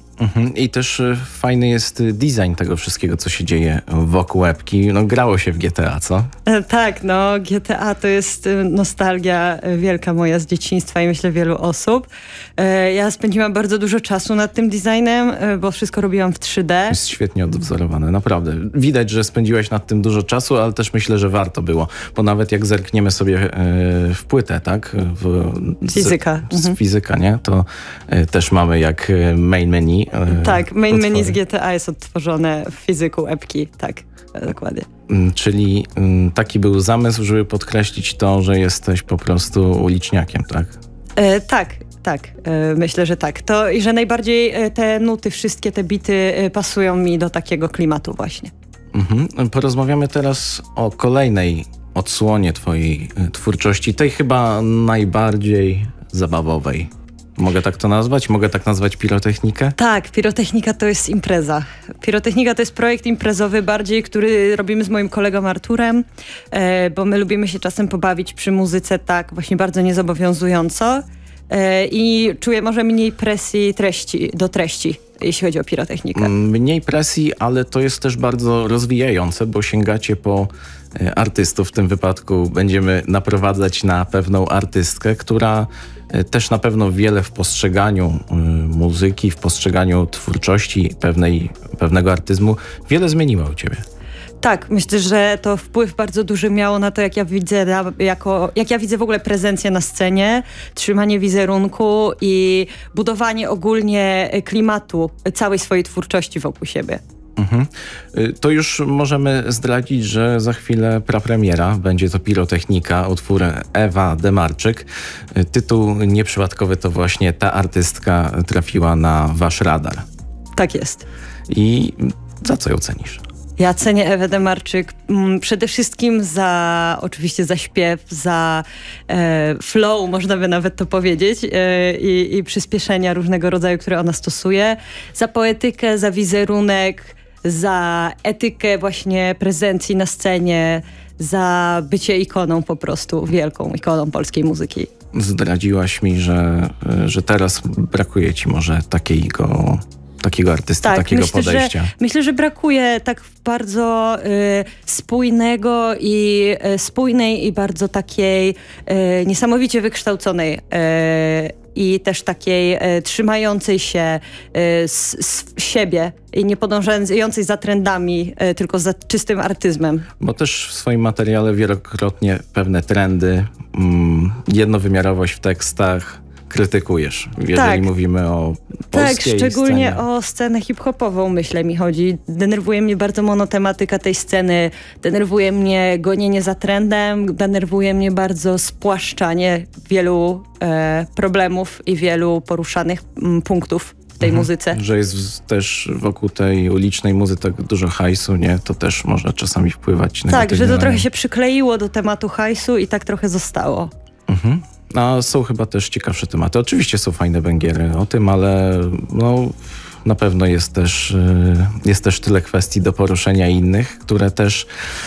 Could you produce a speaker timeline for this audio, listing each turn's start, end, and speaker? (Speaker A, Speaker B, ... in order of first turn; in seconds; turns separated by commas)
Speaker A: 0.2-6.3, Speaker B: 6.5-17.0, Speaker A: 16.9-31.4, Speaker B: 25.9-26.8, Speaker B: 30.3-34.9, Speaker A: 35.1-40.8, Speaker B: 41.2-48.5, Speaker A: 48.9-59.8, Speaker B: 59.8-76.3, Speaker A: 76.2-93.8, Speaker B: 94.4-107.0, Speaker A: 107.4-120.0, Speaker B: 120.6-121.0, Speaker A: 121.5-123.2, Speaker B: 123.6-144.9, Speaker A: 145.1-151.9, Speaker B: 150.8-170.1, Speaker A: 170.2-180.0, Speaker B: 177.5-177.9, Speaker B: 178.9-194.8, Speaker A: 194.2-201.1, Speaker B: 200.3-203.9, Speaker A: 204.3-214.7